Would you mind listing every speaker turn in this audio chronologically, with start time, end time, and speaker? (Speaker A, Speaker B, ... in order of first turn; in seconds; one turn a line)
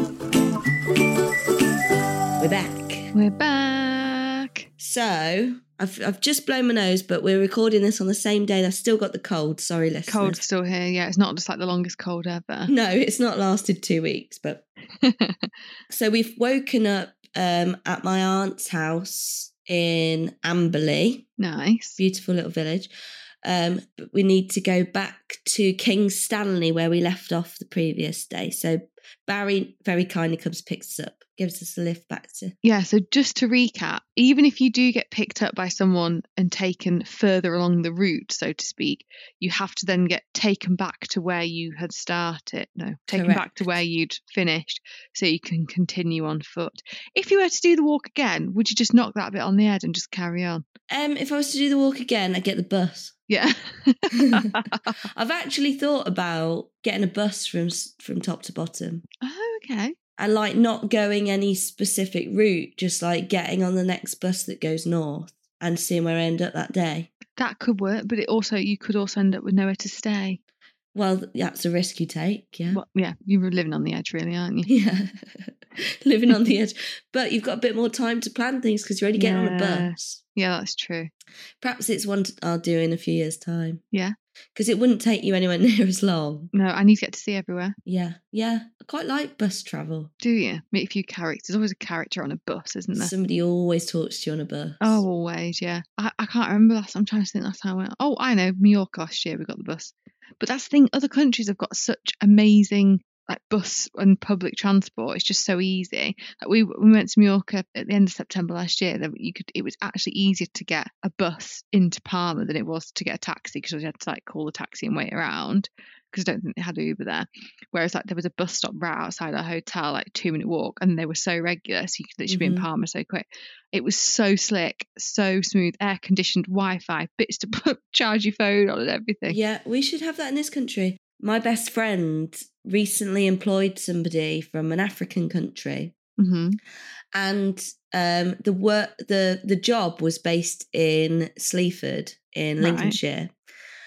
Speaker A: 2.4-3.1
Speaker B: 3.1-4.6
Speaker A: 4.8-10.4
Speaker B: 10.1-12.7
Speaker A: 12.7-14.7
Speaker B: 15.0-15.5
Speaker A: 15.9-21.2
Speaker B: 21.4-22.0
Speaker A: 22.0-22.9
Speaker A: 23.4-32.5
Speaker B: 32.6-50.6
Speaker A: 43.1-43.8
Speaker A: 50.9-53.1
Speaker B: 53.3-55.0
Speaker A: 55.1-59.0
Speaker B: 59.2-60.0
Speaker A: 60.2-67.1
Speaker B: 67.4-70.4
Speaker A: 70.9-72.8
Speaker B: 72.7-74.7
Speaker A: 74.7-80.2
Speaker B: 79.2-81.1
Speaker A: 81.6-83.8
Speaker A: 84.5-86.5
Speaker B: 86.5-87.8
Speaker A: 87.9-90.1
Speaker B: 90.2-93.1
Speaker A: 92.9-95.0
Speaker B: 94.8-129.4
Speaker A: 122.3-122.7
Speaker A: 129.3-135.9
Speaker B: 136.2-136.6
Speaker A: 137.1-143.3
Speaker B: 142.6-143.0